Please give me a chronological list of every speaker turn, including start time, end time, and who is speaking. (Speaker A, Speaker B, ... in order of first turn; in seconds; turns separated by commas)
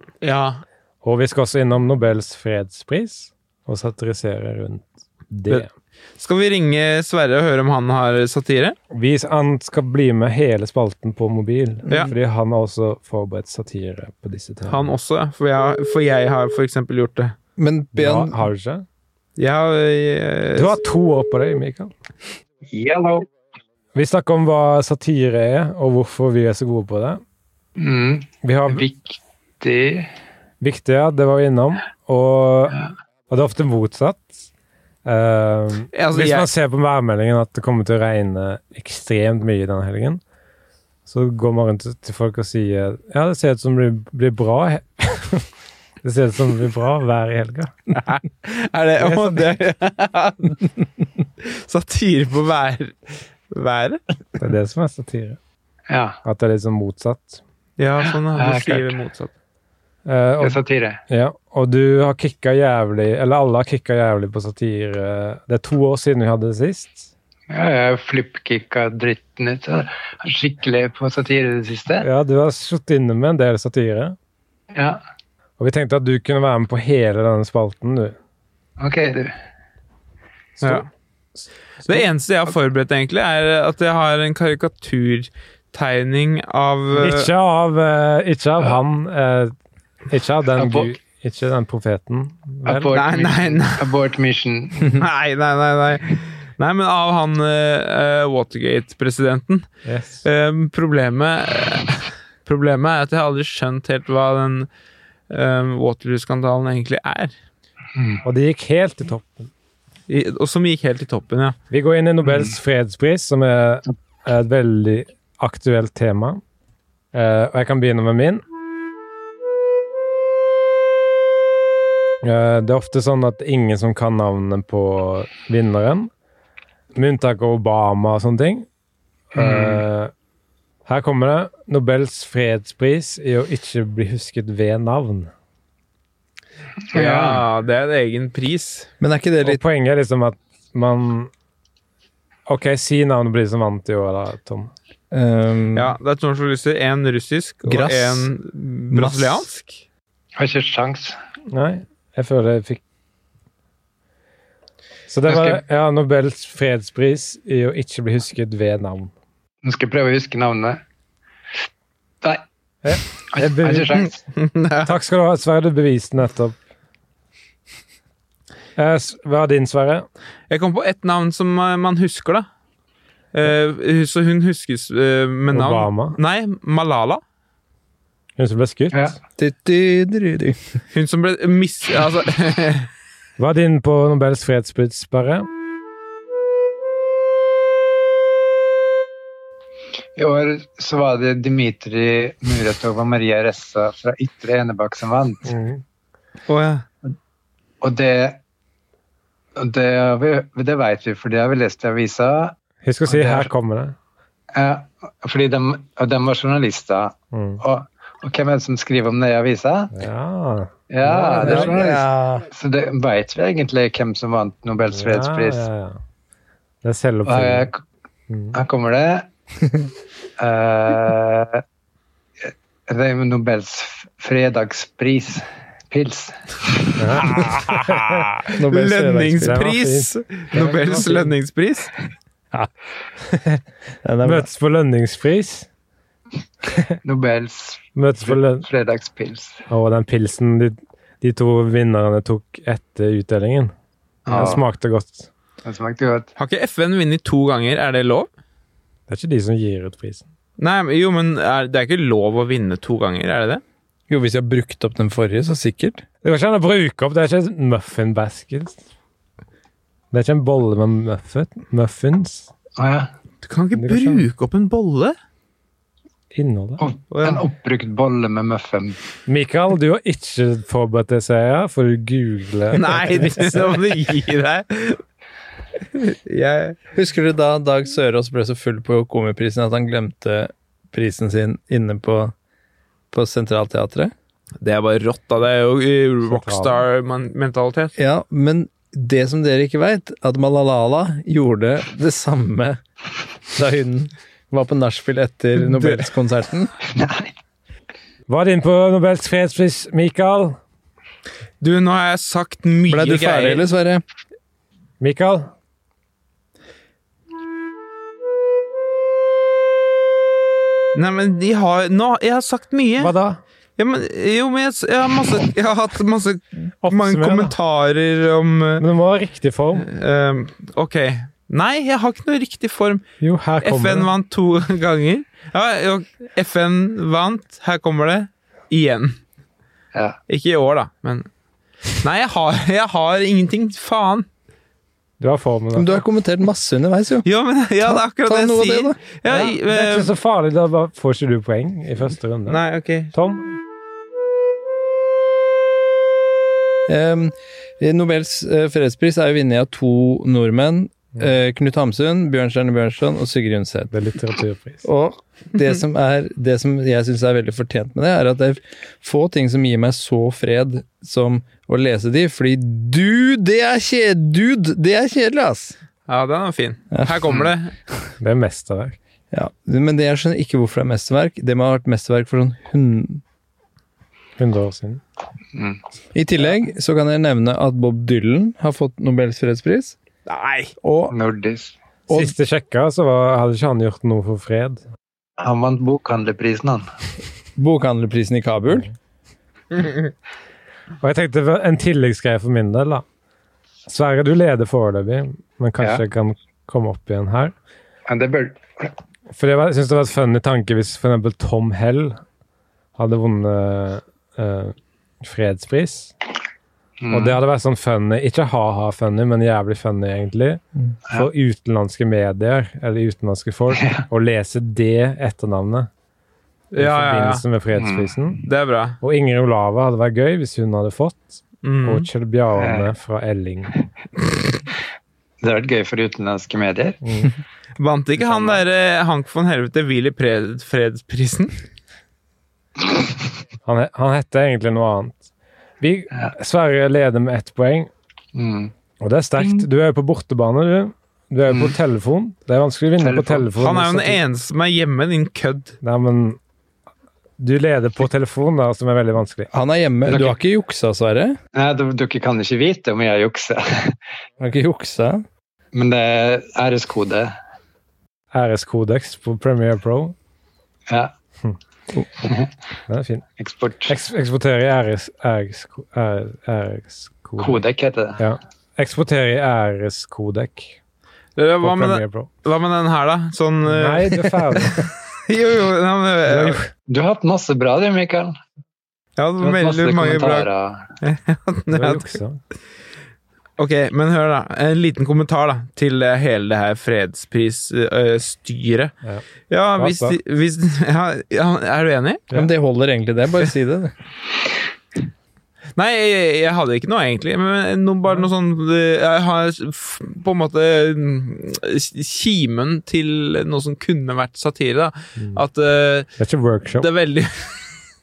Speaker A: 0.2-0.6, Speaker B: 1.0-5.7, Speaker A: 6.2-8.8, Speaker B: 8.9-14.9, Speaker C: 11.9-12.1, Speaker A: 14.7-17.4, Speaker C: 17.6-18.4, Speaker B: 17.9-18.9, Speaker A: 19.4-20.8, Speaker B: 20.6-21.9, Speaker D: 22.7-23.3, Speaker B: 23.9-27.2, Speaker D: 27.8-30.1, Speaker B: 28.4-28.9, Speaker B: 30.6-34.3, Speaker B: 35.0-40.2, Speaker A: 35.9-36.5, Speaker B: 41.1-45.5, Speaker B: 46.0-47.9, Speaker A: 47.9-50.7, Speaker B: 49.0-49.4, Speaker A: 51.4-54.0, Speaker B: 54.4-55.4, Speaker D: 55.9-56.2, Speaker B: 56.2-57.4, Speaker A: 57.8-59.3, Speaker D: 58.3-58.9, Speaker B: 60.1-67.1, Speaker D: 60.4-61.0, Speaker D: 67.5-72.1, Speaker B: 72.0-74.2, Speaker D: 74.7-75.0, Speaker B: 75.6-78.2, Speaker D: 78.8-79.3, Speaker B: 80.6-80.9, Speaker A: 80.6-80.9, Speaker A: 81.8-87.3, Speaker B: 87.0-89.5, Speaker B: 90.1-93.0, Speaker D: 90.6-90.9, Speaker D: 92.7-95.0, Speaker A: 92.9-93.9, Speaker A: 94.9-99.7, Speaker B: 99.8-100.2, Speaker A: 100.2-104.7, Speaker A: 105.3-107.3, Speaker D: 108.0-108.2, Speaker B: 108.2-109.5, Speaker A: 110.1-111.6, Speaker B: 111.7-116.4, Speaker B: 117.1-118.4, Speaker B: 122.2-126.1, Speaker B: 127.0-128.7, Speaker B: 129.3-130.1, Speaker D: 129.4-129.8, Speaker B: 130.9-135.3, Speaker D: 136.9-137.4, Speaker A: 136.9-138.9, Speaker C: 139.0-139.6, Speaker B: 139.4-141.3, Speaker B: 142.5-144.7, Speaker C: 145.1-145.9, Speaker A: 145.8-149.8, Speaker C: 147.7-148.3, Speaker C: 148.9-149.5, Speaker D: 150.4-151.2, Speaker B: 151.5-152.8, Speaker B: 155.1-159.1, Speaker D: 155.3-155.6, Speaker D: 159.6-160.8, Speaker B: 162.8-164.0, Speaker D: 163.3-164.2, Speaker A: 164.4-164.9, Speaker B: 164.8-166.6, Speaker B: 168.8-170.1, Speaker A: 170.5-172.5, Speaker A: 173.3-177.2, Speaker B: 175.5-176.2, Speaker B: 178.4-179.1, Speaker D: 178.9-179.2, Speaker C: 179.4-180.6, Speaker A: 180.9-182.9, Speaker B: 183.4-185.5, Speaker D: 190.2-195.5, Speaker B: 195.4-195.8, Speaker A: 196.5-196.8, Speaker D: 197.8-198.4, Speaker D: 199.6-202.6, Speaker B: 202.8-204.0, Speaker D: 203.1-203.5, Speaker D: 204.6-209.9, Speaker B: 207.3-207.6, Speaker B: 209.9-211.8, Speaker D: 210.9-215.7, Speaker C: 211.3-212.5, Speaker B: 214.9-216.0, Speaker B: 216.8-217.7, Speaker D: 217.3-217.8, Speaker B: 218.3-218.6, Speaker D: 218.5-219.3, Speaker D: 220.4-221.6, Speaker D: 222.9-227.0, Speaker B: 227.0-228.4, Speaker C: 228.4-229.6, Speaker A: 228.7-231.9, Speaker B: 229.3-231.3, Speaker B: 233.2-233.6, Speaker C: 234.0-234.5, Speaker B: 234.2-235.7, Speaker D: 237.0-239.6, Speaker B: 237.9-238.7, Speaker B: 239.7-243.7, Speaker D: 244.3-244.6, Speaker B: 244.3-245.3, Speaker D: 245.6-246.3, Speaker A: 246.4-248.3, Speaker B: 249.1-250.2, Speaker A: 250.6-253.6, Speaker C: 254.1-256.1, Speaker B: 256.2-258.8, Speaker B: 260.1-262.5, Speaker D: 262.8-263.1, Speaker A: 263.4-265.1, Speaker B: 263.8-264.3, Speaker B: 266.3-266.8, Speaker D: 266.8-269.0, Speaker A: 267.1-267.4, Speaker B: 269.3-274.0, Speaker A: 272.8-275.0, Speaker A: 275.9-276.8, Speaker C: 276.9-282.3, Speaker C: 283.1-284.1, Speaker A: 284.6-287.9, Speaker B: 286.2-286.8, Speaker C: 288.0-292.8, Speaker C: 293.5-296.7, Speaker A: 295.6-296.1, Speaker D: 296.9-297.3, Speaker B: 298.3-300.6, Speaker A: 301.6-303.6, Speaker C: 302.9-304.0, Speaker B: 305.0-305.5, Speaker A: 310.9-313.1, Speaker B: 313.0-313.4, Speaker A: 313.8-318.8, Speaker B: 316.8-317.6, Speaker B: 318.8-319.9, Speaker A: 319.8-323.0, Speaker B: 323.2-324.1, Speaker A: 323.6-329.2, Speaker A: 330.3-331.3, Speaker A: 331.9-334.3, Speaker B: 335.2-336.0, Speaker C: 335.8-337.3, Speaker A: 337.2-340.1, Speaker C: 337.8-339.0, Speaker B: 339.3-342.6, Speaker A: 342.5-343.1, Speaker B: 343.1-343.5, Speaker C: 346.9-353.9, Speaker B: 353.9-354.9, Speaker C: 354.8-365.8, Speaker A: 366.1-367.7, Speaker C: 366.9-367.2, Speaker B: 368.2-369.0, Speaker C: 369.3-373.2, Speaker B: 374.4-375.0, Speaker D: 375.5-375.8, Speaker C: 376.1-380.0, Speaker A: 380.3-380.7, Speaker C: 380.8-381.1, Speaker D: 381.1-381.7, Speaker B: 382.1-384.8, Speaker D: 385.4-386.8, Speaker C: 387.6-388.9, Speaker B: 391.0-393.1, Speaker B: 393.9-397.6, Speaker D: 398.1-398.9, Speaker B: 399.3-402.2, Speaker B: 403.0-406.1, Speaker D: 407.0-407.4, Speaker B: 407.1-415.9, Speaker A: 416.7-417.4, Speaker B: 416.8-418.4, Speaker D: 417.8-418.1, Speaker A: 418.5-419.0, Speaker B: 419.0-423.8, Speaker A: 421.6-422.1, Speaker D: 422.6-422.9, Speaker D: 425.4-427.0, Speaker B: 427.0-427.3, Speaker A: 427.8-431.6, Speaker D: 428.2-428.6, Speaker B: 433.6-435.2, Speaker B: 435.8-437.9, Speaker D: 438.4-438.7, Speaker B: 439.0-444.2, Speaker D: 441.5-441.7, Speaker D: 443.0-443.5, Speaker A: 443.6-445.8, Speaker B: 445.8-446.4, Speaker B: 447.4-449.5, Speaker C: 449.5-451.4, Speaker D: 451.6-454.0, Speaker C: 454.4-455.2, Speaker D: 455.7-457.3, Speaker B: 458.3-460.1, Speaker D: 462.2-462.5, Speaker B: 462.9-463.2, Speaker D: 463.4-463.9, Speaker B: 463.9-467.6, Speaker D: 467.4-468.3, Speaker B: 468.2-470.8, Speaker A: 471.4-476.6, Speaker B: 471.6-472.3, Speaker B: 473.6-474.9, Speaker B: 476.2-476.7, Speaker D: 476.9-478.4, Speaker A: 479.2-480.5, Speaker D: 479.4-480.8, Speaker A: 481.0-482.1, Speaker B: 481.7-482.4, Speaker A: 483.6-488.9, Speaker A: 489.5-492.2, Speaker B: 489.8-490.2, Speaker C: 492.3-493.9, Speaker A: 495.8-506.1, Speaker B: 506.2-506.9, Speaker A: 506.8-507.8